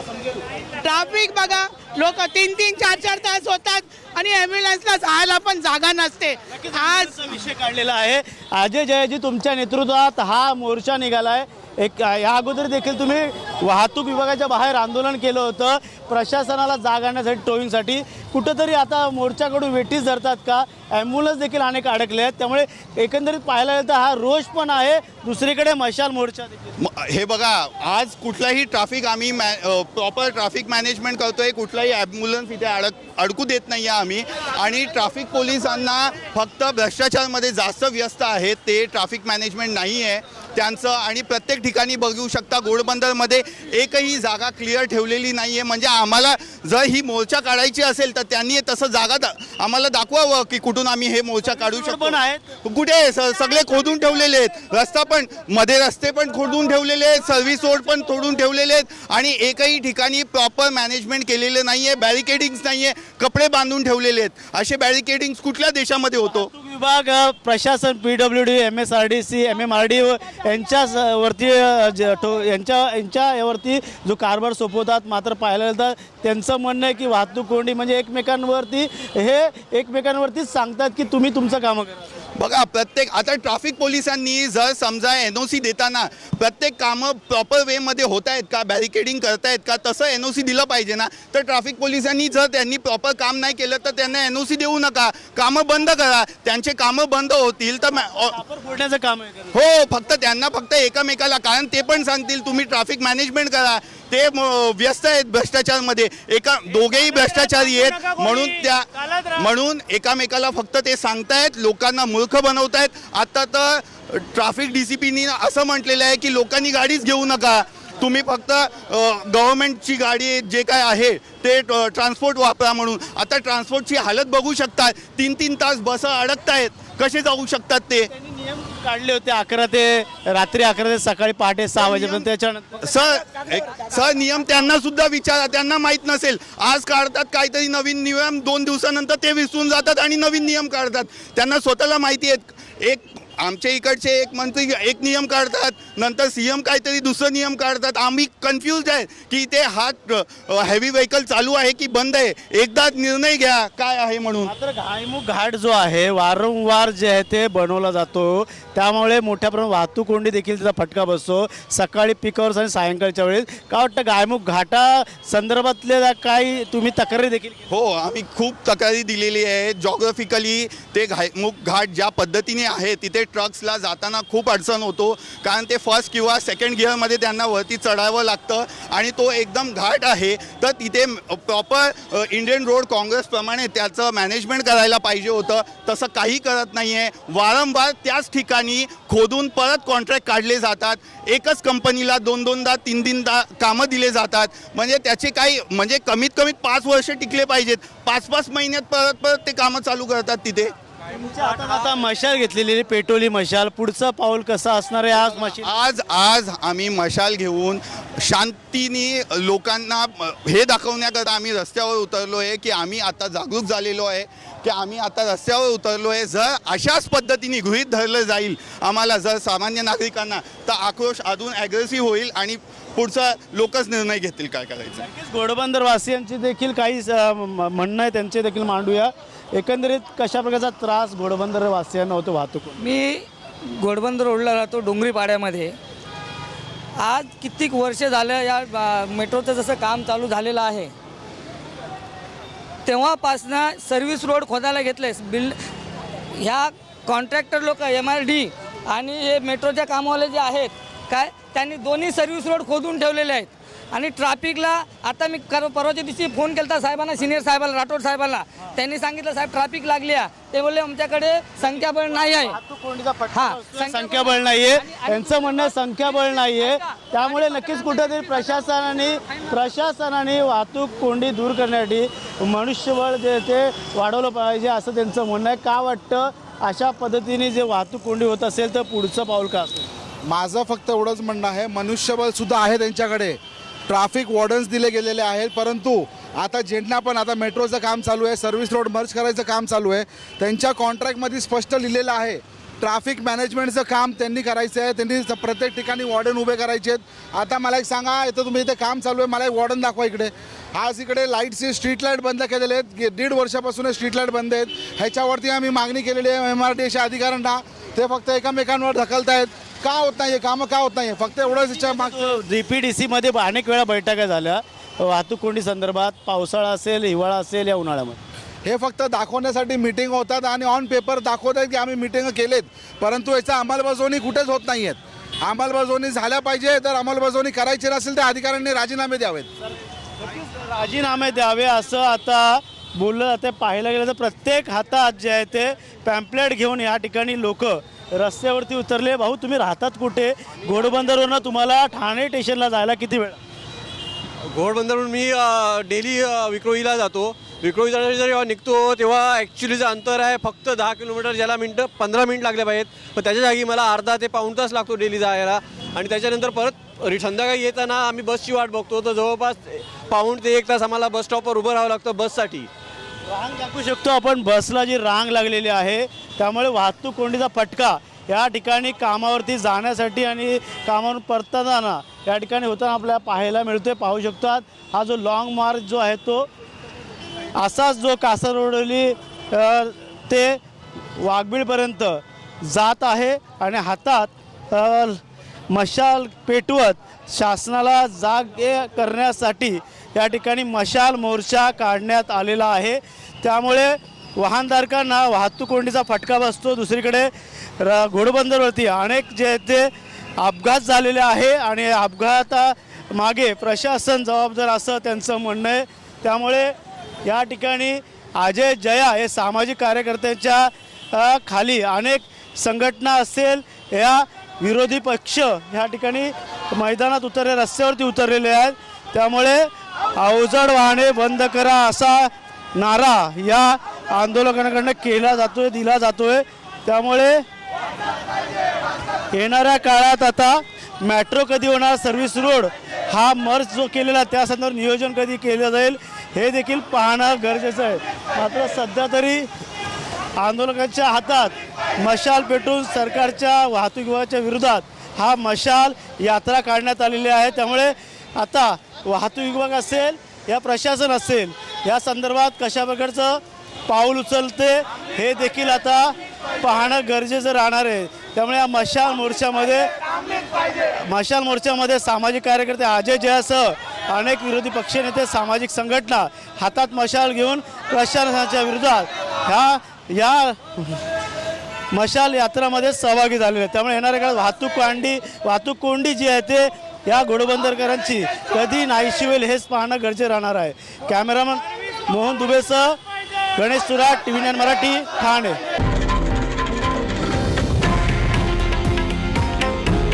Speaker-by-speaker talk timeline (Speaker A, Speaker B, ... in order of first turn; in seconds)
Speaker A: 0.8-7.1
Speaker B: 6.5-26.7, 51.7-52.4, 66.3-82.0, 98.0-99.5, 128.1-132.9, 154.4-167.6, 201.1-205.7, 225.0-232.8, 262.4-279.9, 311.9-318.2, 330.4-343.4, 363.3-376.5, 377.6-380.6, 381.2-385.2, 385.7-406.7, 407.2-427.4, 429.3-439.5, 440.4-459.9, 461.1-471.0, 471.9-483.0, 483.6-485.6
Speaker C: 26.8-66.5, 82.4-98.4, 99.5-128.1, 131.8-132.2, 132.8-154.5, 167.7-200.7, 205.5-225.0
Speaker D: 232.8-233.2, 233.8-235.7, 237.0-240.9, 242.8-245.6, 246.4-262.6, 263.3-266.9
Speaker E: 280.2-312.3, 318.6-329.5
Speaker F: 344.5-362.7